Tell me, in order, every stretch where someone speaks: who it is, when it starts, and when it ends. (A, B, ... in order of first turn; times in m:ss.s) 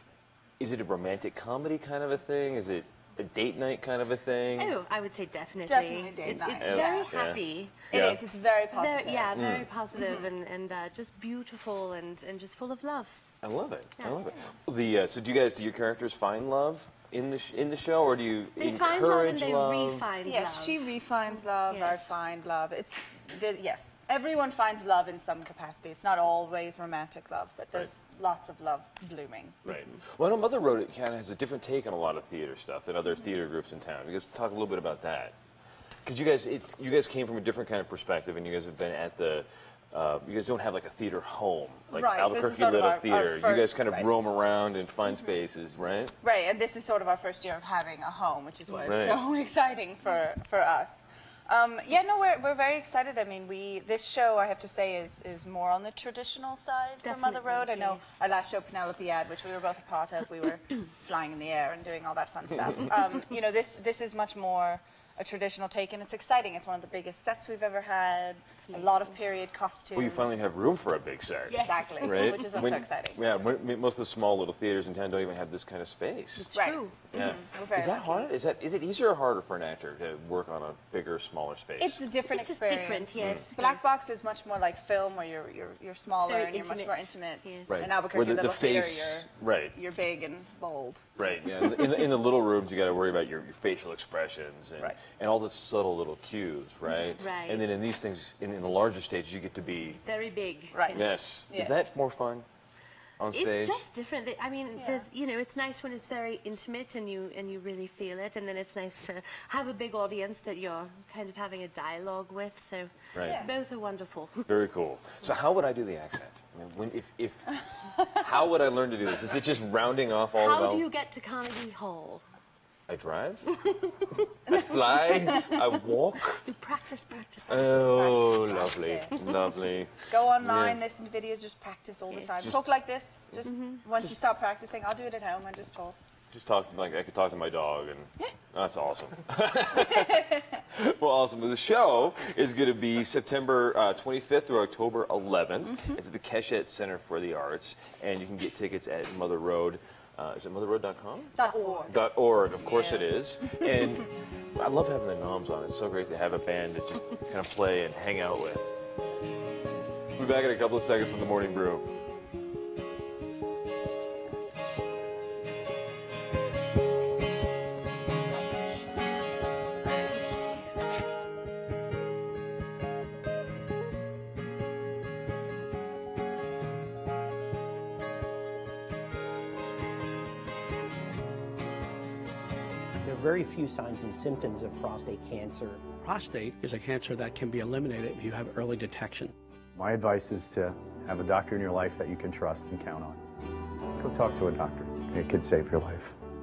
0:00.6-0:04.7 A
0:04.6-0:07.8 B
0:05.6-0:07.3 C
0:06.6-0:07.4 A
0:07.9-0:09.4 C
0:07.9-0:08.2 A
0:08.7-0:13.2 B
0:09.3-0:09.7 A
0:10.0-0:10.3 C
0:13.4-0:20.1 A
0:18.6-0:20.8 B
0:20.2-0:29.6 C
0:21.7-0:22.1 B
0:29.6-0:35.4 A
0:36.0-0:46.1 A
0:41.9-0:44.1 C
0:46.2-1:10.5 C
0:48.9-0:49.2 A
0:57.0-0:58.1 B
1:08.7-1:09.0 B
1:09.9-1:16.5 A
1:11.5-1:12.8 B
1:11.6-1:13.2 C
1:16.4-1:17.5 B
1:16.5-1:18.3 C
1:17.1-1:22.0 A
1:21.8-1:31.8 C
1:22.3-1:23.8 B
1:26.2-1:27.8 B
1:27.7-1:29.8 A
1:31.2-1:40.0 A
1:37.0-1:37.8 B
1:40.0-1:41.2 B
1:40.7-1:41.9 C
1:40.9-1:42.4 A
1:43.2-1:43.8 A
1:43.3-1:54.5 B
1:44.7-1:45.1 C
1:53.1-1:53.4 A
1:53.2-1:53.5 C
1:54.4-2:00.8 A
2:00.3-2:02.2 B
2:02.9-2:03.4 A
2:03.5-2:04.2 B
2:04.5-2:06.4 A
2:04.5-2:05.3 C
2:06.3-2:08.0 B
2:07.5-2:10.8 A
2:07.5-2:09.3 C
2:10.1-2:16.0 C
2:13.4-2:13.8 B
2:16.3-2:31.4 A
2:31.3-2:32.0 C
2:31.9-2:38.7 A
2:32.6-2:33.9 C
2:40.2-2:41.9 A
3:03.0-3:05.9 D
3:05.9-3:09.3 E
3:09.7-3:13.2 F
3:14.0-3:16.1 F